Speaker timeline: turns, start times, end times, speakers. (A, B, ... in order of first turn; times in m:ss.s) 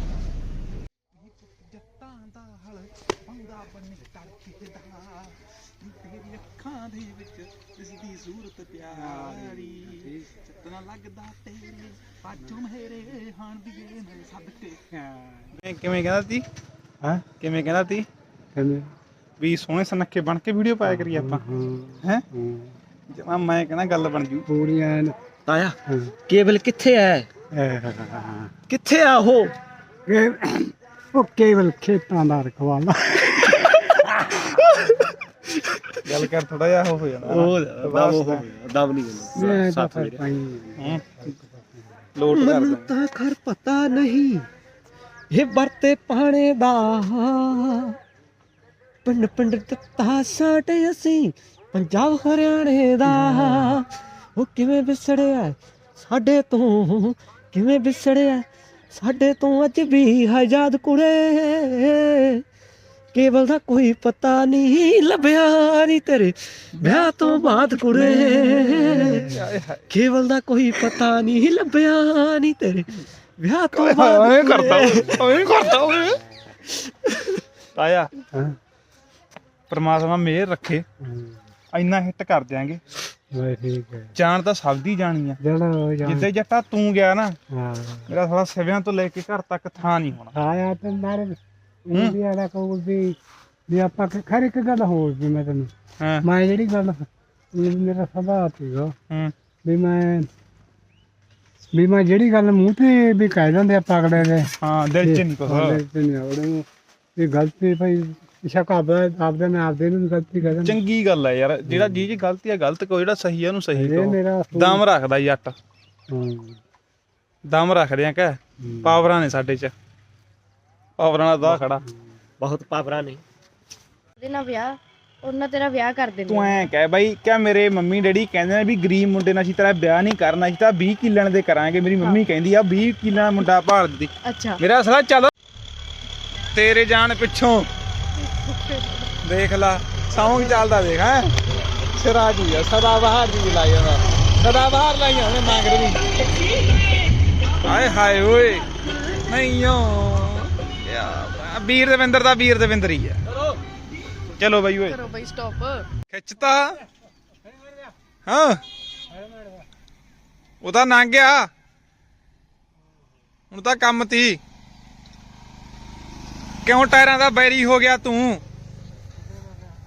0:01.2-0:14.9 A
0:09.1-0:10.0 B
0:15.5-0:16.4 A
0:17.4-0:18.1 A
0:18.5-0:18.9 B
0:19.4-0:21.4 A
0:20.8-0:22.7 B
0:23.1-0:24.4 A
0:24.5-0:25.1 B
0:25.5-0:25.8 C
0:25.9-0:26.1 B
0:26.3-0:27.3 C
0:27.5-0:28.5 B
0:28.7-0:29.5 C
0:30.1-0:34.4 B
0:35.6-0:36.0 C
0:36.0-0:38.4 A
0:37.2-0:40.2 C
0:39.3-0:42.0 B
0:40.8-0:41.3 A
0:42.1-0:42.9 A
0:42.3-0:44.5 C
0:45.3-0:48.0 C
0:49.0-0:53.8 C
0:53.1-0:53.7 A
0:54.4-1:02.4 C
1:03.1-1:09.3 C
1:06.8-1:09.9 A
1:09.0-1:09.3 B
1:09.9-1:15.2 C
1:13.7-1:16.2 A
1:17.7-1:18.1 A
1:19.7-1:20.8 A
1:21.0-1:21.4 B
1:21.7-1:22.8 A
1:23.3-1:24.1 B
1:24.1-1:25.4 A
1:25.4-1:26.3 B
1:26.0-1:27.4 A
1:27.5-1:28.1 B
1:28.1-1:30.3 A
1:30.3-1:33.2 B
1:33.7-1:35.7 B
1:36.0-1:36.2 A
1:36.2-1:38.9 B
1:39.6-1:40.3 B
1:41.7-1:46.6 B
1:44.5-1:45.8 A
1:47.2-1:50.8 B
1:50.5-1:55.5 A
1:51.6-1:52.2 B
1:53.7-1:54.8 B
1:56.1-1:56.6 B
1:57.5-1:59.7 A
1:58.6-1:59.0 B
2:01.0-2:01.8 A
2:01.8-2:02.0 B
2:02.4-2:03.2 C
2:04.2-2:06.6 D
2:06.3-2:15.3 A
2:14.2-2:14.6 D
2:16.5-2:17.7 A
2:18.2-2:19.1 D
2:19.2-2:21.3 A
2:21.8-2:26.0 A
2:27.6-2:28.7 A
2:29.2-2:33.2 A
2:34.4-2:35.0 A
2:34.8-2:35.9 D
2:36.1-2:36.8 A
2:38.3-2:38.6 A
2:39.1-2:39.6 B
2:40.6-2:41.5 A
2:43.5-2:44.4 A
2:46.6-2:48.4 A
2:49.2-2:49.5 B